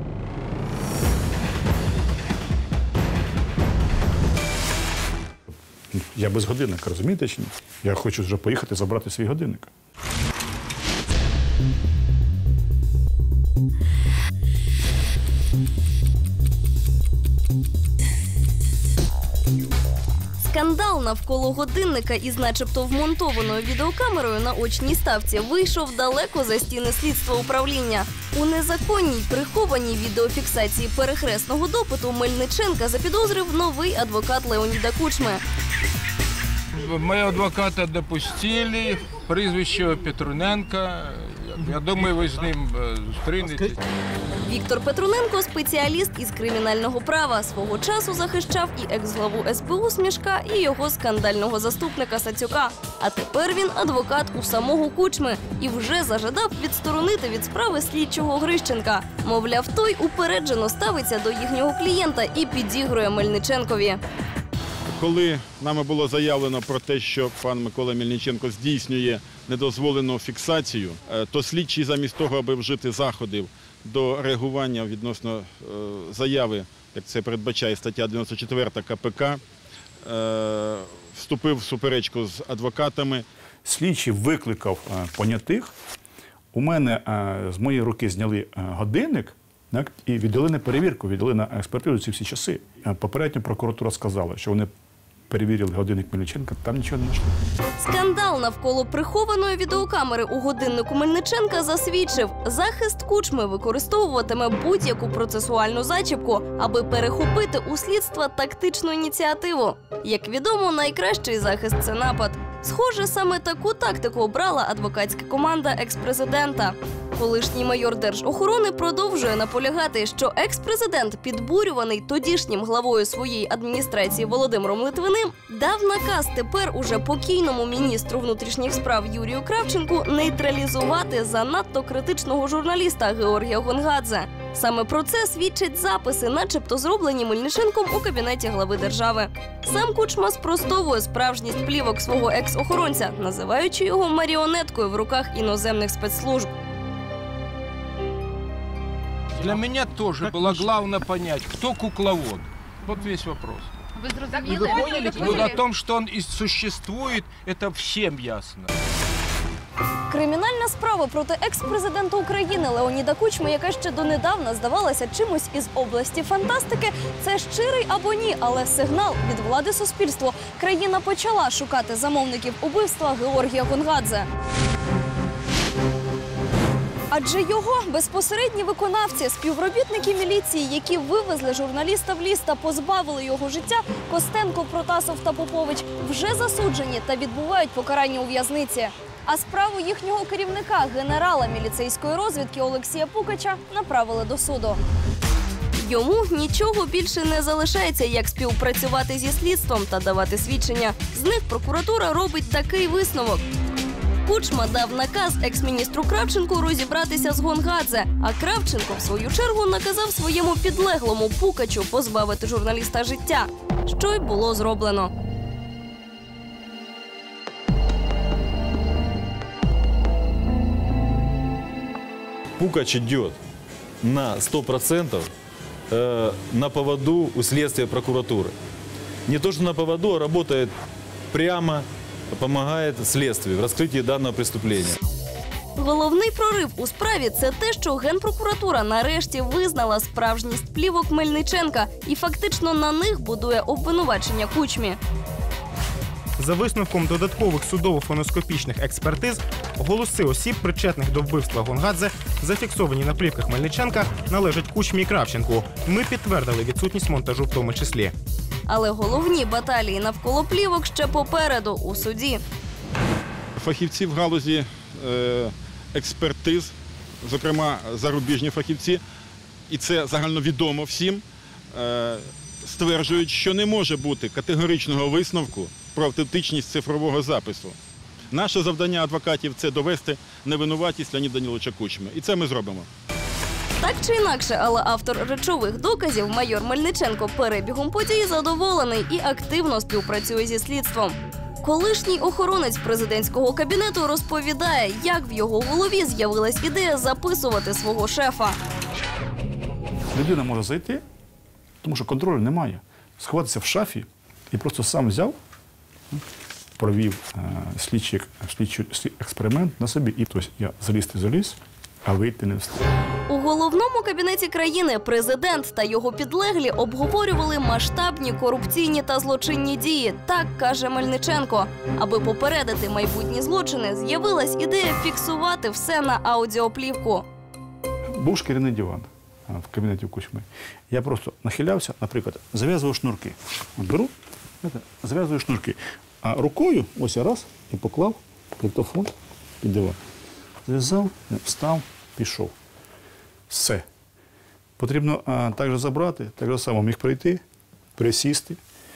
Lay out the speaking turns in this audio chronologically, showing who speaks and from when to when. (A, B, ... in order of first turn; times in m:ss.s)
0:05.9-0:09.7 A
0:20.4-0:35.4 B
0:36.7-0:43.8 C
0:44.4-1:04.0 B
1:04.9-1:19.4 D
1:20.0-1:23.3 D
1:23.6-1:25.7 A
1:26.5-1:34.7 A
1:35.3-1:37.4 A
1:37.6-2:26.5 B
2:29.4-2:33.7 C
2:34.3-2:38.7 C
2:40.1-2:54.3 B
2:57.1-3:14.8 B
3:15.8-3:23.4 B
3:24.2-3:35.1 B
3:42.6-3:43.4 E
3:44.0-3:45.3 E
3:45.9-3:48.5 E
3:49.3-3:50.7 E
3:51.3-3:55.0 E
3:55.8-4:05.0 B
4:06.4-4:18.2 F
4:18.7-4:22.4 B
4:23.6-4:29.0 D
4:29.7-4:37.8 D
4:38.3-4:42.9 D
4:43.8-4:58.6 B
5:00.1-5:01.0 A
5:01.8-5:05.4 A
5:06.8-5:12.8 A
5:13.3-5:27.3 B
5:28.2-5:40.0 A
5:40.7-5:42.5 A
5:43.5-5:43.8 A
5:44.8-5:47.4 A
5:48.0-5:48.6 A